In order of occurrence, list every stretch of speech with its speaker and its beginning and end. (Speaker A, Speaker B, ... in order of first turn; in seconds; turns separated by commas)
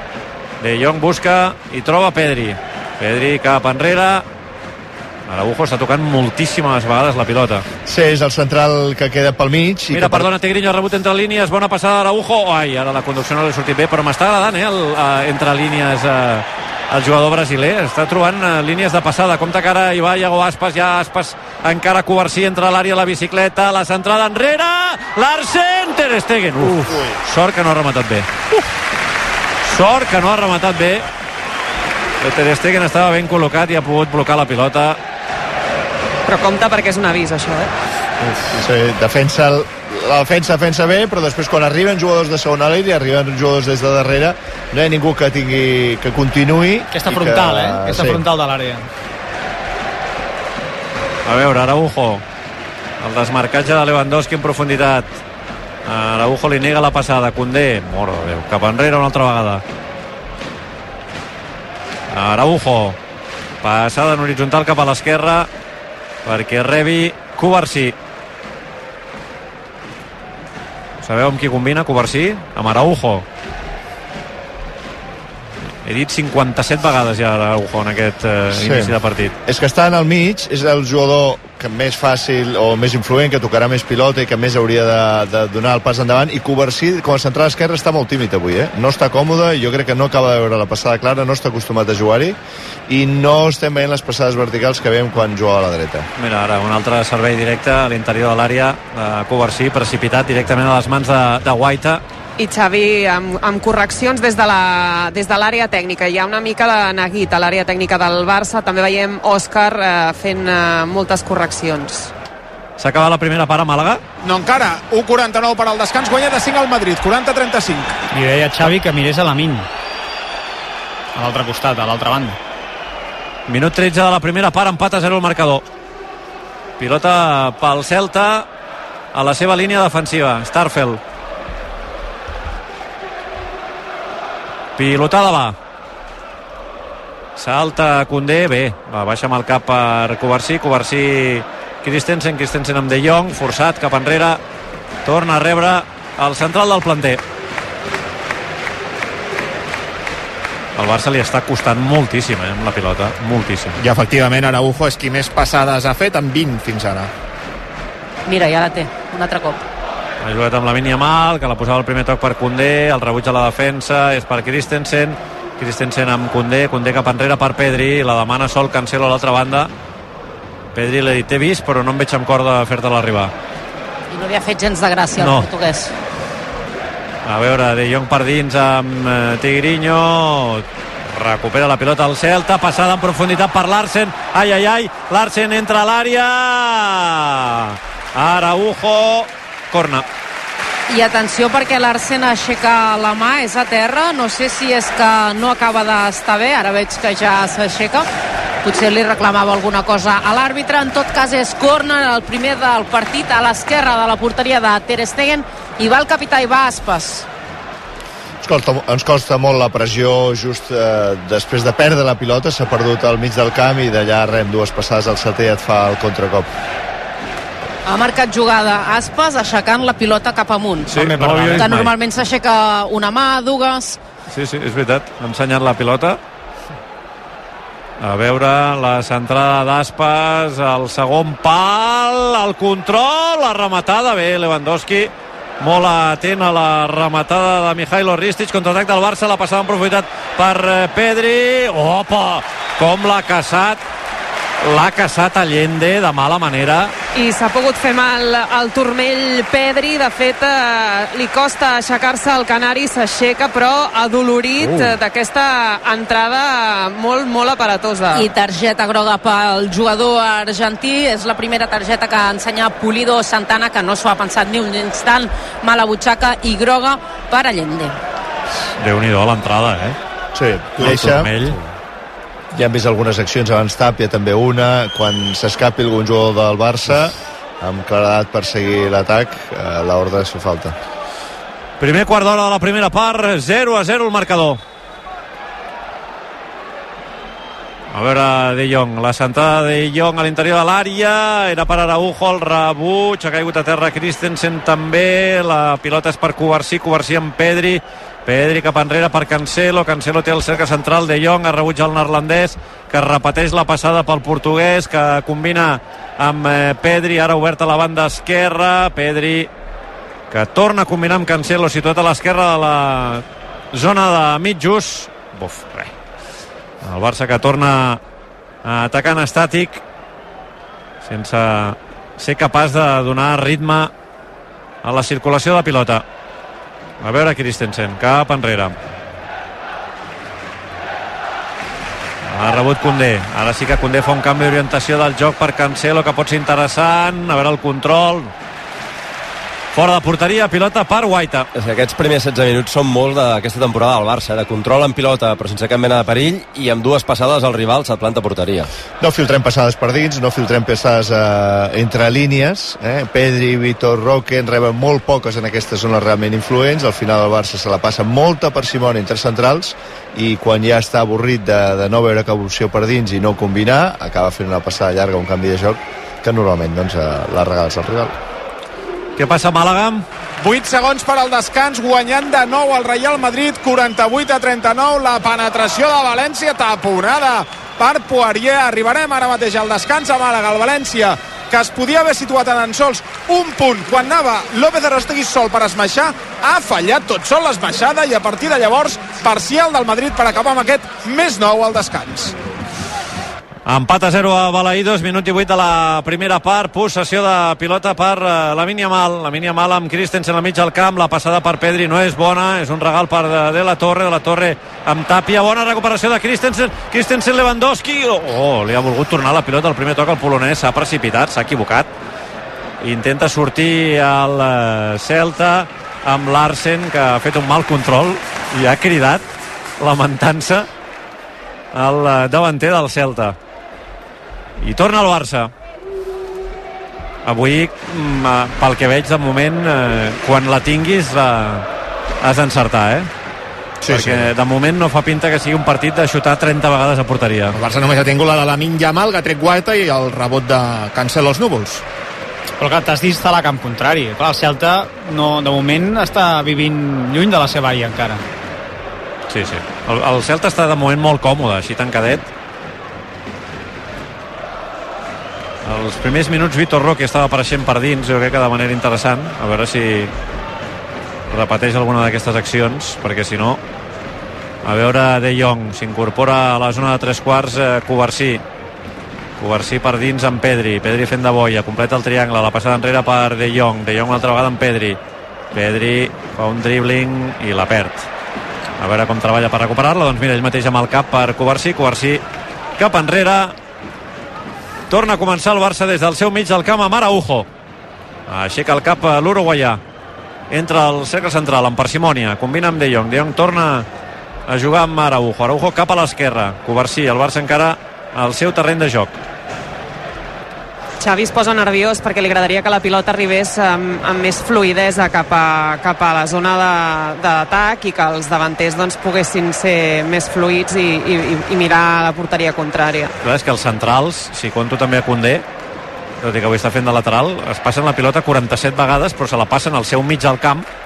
Speaker A: 0.6-4.2, Speaker A: 5.3-7.7, Speaker B: 7.9-10.3, Speaker A: 9.9-28.7, Speaker A: 29.7-31.1, Speaker A: 32.2-35.0, Speaker C: 36.3-37.7, Speaker B: 38.2-48.2, Speaker D: 46.9-48.8, Speaker A: 51.3-52.2, Speaker A: 53.0-55.0, Speaker A: 55.9-59.6, Speaker A: 62.1-63.0, Speaker A: 63.6-65.5, Speaker A: 66.2-68.0, Speaker A: 71.0-73.2, Speaker A: 75.8-79.3, Speaker B: 78.5-78.9, Speaker B: 79.5-96.1, Speaker A: 96.2-102.0, Speaker C: 102.4-112.1, Speaker A: 112.8-114.0, Speaker E: 114.2-118.0, Speaker D: 118.1-119.7, Speaker D: 121.2-122.4, Speaker A: 123.5-125.6, Speaker A: 126.8-128.5, Speaker A: 129.1-131.0, Speaker A: 134.8-135.6, Speaker A: 137.4-144.4, Speaker A: 145.1-147.2, Speaker A: 150.8-153.8, Speaker F: 153.8-157.1, Speaker G: 158.3-159.6, Speaker A: 160.2-169.7, Speaker A: 170.8-173.3, Speaker G: 174.1-175.9, Speaker A: 175.2-175.5, Speaker A: 177.3-190.1, Speaker G: 190.9-198.1, Speaker G: 198.6-207.3, Speaker B: 208.4-216.5, Speaker G: 217.9-224.0, Speaker A: 220.9-221.9, Speaker D: 221.0-221.8, Speaker A: 224.3-226.2, Speaker A: 228.0-243.8, Speaker A: 244.6-246.9, Speaker C: 247.2-258.3, Speaker G: 258.1-268.0, Speaker A: 268.8-270.0, Speaker B: 270.4-271.4, Speaker A: 270.8-271.6, Speaker B: 272.5-280.8, Speaker A: 281.8-284.6, Speaker A: 287.9-309.5, Speaker A: 310.3-315.9, Speaker A: 316.8-318.0, Speaker A: 318.6-319.8, Speaker A: 321.0-323.9, Speaker A: 324.8-326.0, Speaker A: 327.0-328.8, Speaker A: 332.3-338.3, Speaker A: 339.7-341.5, Speaker H: 341.6-348.7, Speaker B: 349.0-368.2, Speaker A: 369.2-370.1, Speaker E: 370.4-392.4, Speaker A: 393.7-411.9, Speaker A: 412.8-419.2, Speaker A: 419.8-420.7, Speaker A: 421.7-423.4, Speaker A: 424.6-425.5, Speaker A: 427.2-431.7, Speaker A: 432.2-433.1, Speaker F: 433.8-434.3, Speaker A: 433.9-437.6, Speaker F: 437.5-441.8, Speaker D: 442.6-448.2, Speaker A: 449.3-452.3, Speaker A: 455.6-460.1, Speaker A: 461.3-463.6, Speaker A: 464.6-468.4, Speaker A: 469.4-475.0, Speaker A: 475.5-478.1, Speaker A: 478.8-482.2, Speaker A: 482.8-483.5, Speaker A: 484.9-487.5, Speaker A: 488.3-489.8, Speaker A: 490.5-493.9, Speaker A: 494.5-499.2, Speaker C: 501.0-513.1, Speaker A: 513.2-515.4, Speaker A: 516.2-520.7